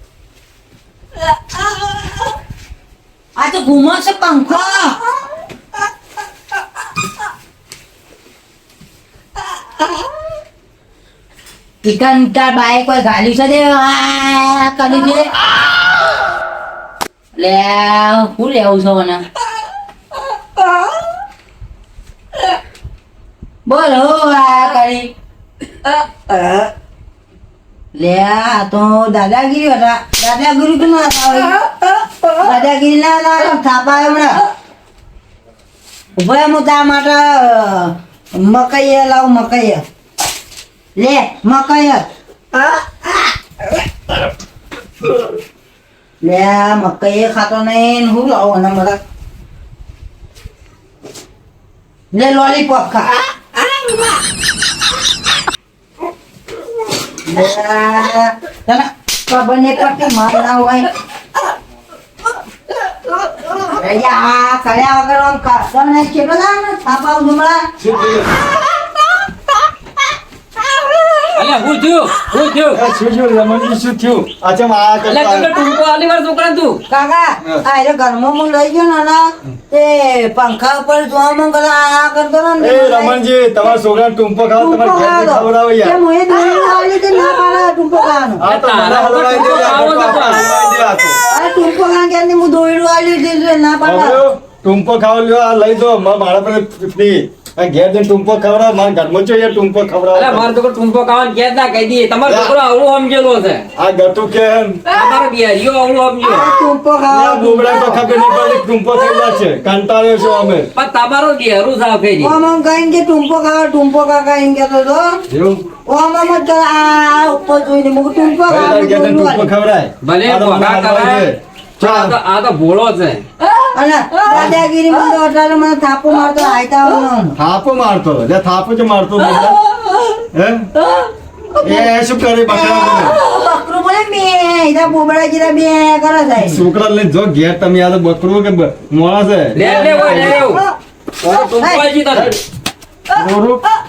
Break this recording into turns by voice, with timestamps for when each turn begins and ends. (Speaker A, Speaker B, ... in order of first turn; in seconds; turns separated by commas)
Speaker A: 3.4-5.0, Speaker A: 11.8-15.3, Speaker A: 17.4-19.3, Speaker A: 23.7-25.1, Speaker A: 26.3-26.6, Speaker A: 27.9-31.6, Speaker A: 32.3-34.4, Speaker A: 36.2-39.8, Speaker A: 41.0-42.1, Speaker A: 42.6-43.3, Speaker A: 46.2-49.0, Speaker A: 52.1-53.2, Speaker A: 57.3-60.9, Speaker A: 63.4-67.7, Speaker B: 67.8-68.3, Speaker C: 71.3-72.8, Speaker B: 72.7-75.5, Speaker C: 75.1-76.8, Speaker A: 76.9-83.2, Speaker B: 82.6-86.0, Speaker A: 84.6-88.4, Speaker B: 88.4-91.2, Speaker C: 88.4-90.7, Speaker A: 91.3-94.2, Speaker B: 93.8-100.5, Speaker C: 100.1-103.7, Speaker B: 102.2-102.6, Speaker B: 103.8-104.9, Speaker C: 104.9-106.5, Speaker A: 106.2-108.0, Speaker B: 107.1-110.7, Speaker C: 110.8-112.3, Speaker A: 112.2-115.1, Speaker B: 115.3-115.6, Speaker A: 115.9-119.5, Speaker B: 118.5-122.1, Speaker C: 120.0-123.2, Speaker A: 123.7-127.3, Speaker B: 127.4-129.6, Speaker B: 130.3-130.7, Speaker B: 131.6-133.2, Speaker A: 132.5-136.6, Speaker B: 136.4-140.5, Speaker C: 139.5-140.6, Speaker A: 139.6-140.6, Speaker C: 141.2-142.3, Speaker A: 141.3-141.8, Speaker B: 143.1-143.6